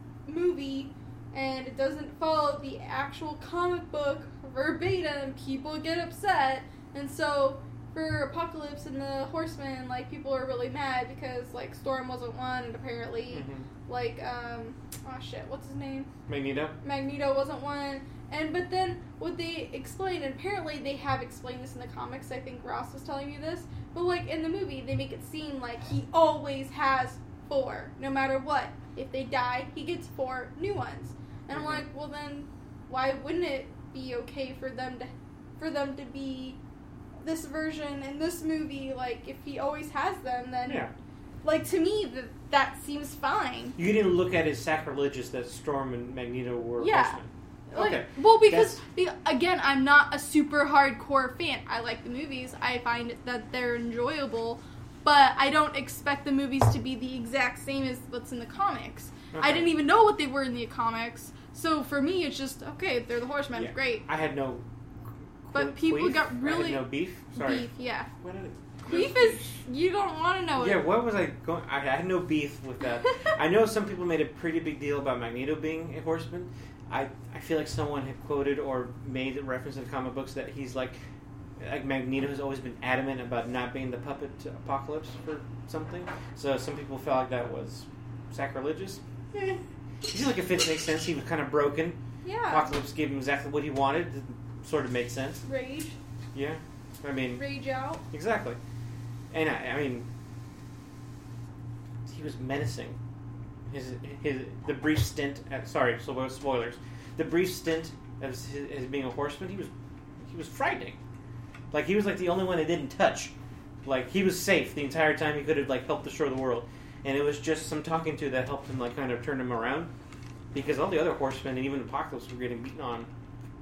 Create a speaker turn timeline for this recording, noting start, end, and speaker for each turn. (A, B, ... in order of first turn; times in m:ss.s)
0:00.3-0:16.1 A
0:13.3-0:13.7 B
0:16.3-0:16.8 B
0:16.8-0:36.6 A
0:31.5-0:31.9 B
0:37.2-0:40.8 A
0:40.7-0:40.9 B
0:41.4-0:43.8 A
0:43.8-0:48.8 B
0:46.8-0:47.2 A
0:47.7-1:04.0 A
0:59.3-0:59.7 B
1:03.5-1:04.6 B
1:05.5-1:07.7 B
1:05.5-1:08.1 A
1:08.2-1:09.6 B
1:08.9-1:10.9 A
1:10.6-1:21.0 B
1:21.6-1:35.4 B
1:32.2-1:32.7 A
1:35.4-1:36.0 A
1:36.3-1:37.5 B
1:37.4-1:38.0 A
1:38.1-1:38.6 B
1:39.3-1:40.1 B
1:42.1-1:43.0 B
1:43.7-1:49.7 B
1:50.2-1:51.0 B
1:51.7-1:53.3 B
1:53.8-1:59.9 B
2:00.5-2:03.1 B